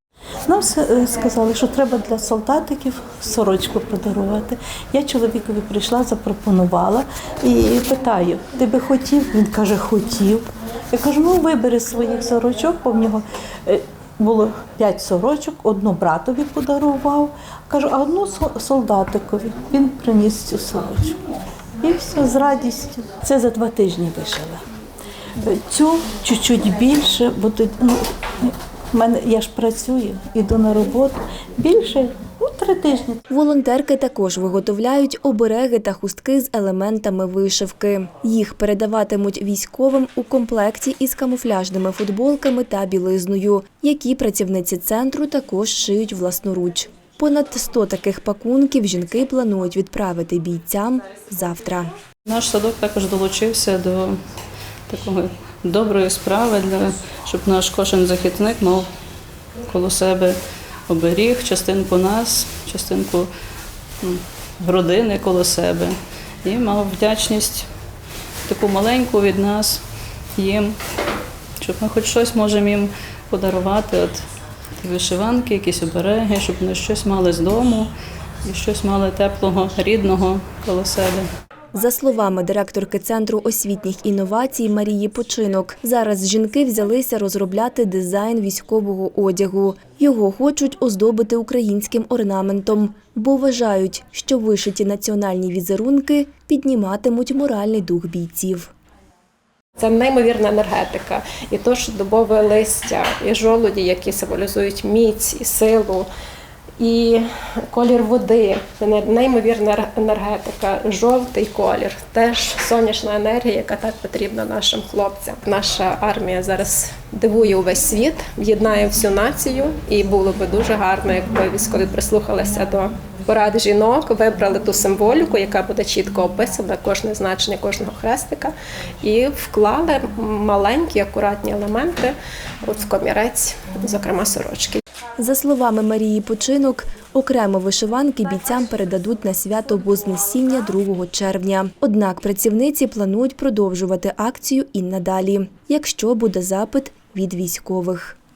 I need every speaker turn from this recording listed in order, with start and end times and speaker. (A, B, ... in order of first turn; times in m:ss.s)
0:00.4-0:21.2 A
0:21.8-0:24.6 A
0:25.4-0:33.2 A
0:33.3-0:51.9 B
0:52.3-0:54.2 C
0:54.9-0:58.9 C
0:59.6-1:00.4 C
1:00.9-1:03.3 C
1:04.0-1:07.7 C
1:08.4-1:09.8 C
1:10.4-1:10.8 C
1:11.6-1:14.2 C
1:14.8-1:17.9 C
1:18.4-1:21.3 C
1:21.7-1:38.7 B
1:39.8-1:46.1 D
1:46.8-2:14.8 D
2:15.2-2:28.2 B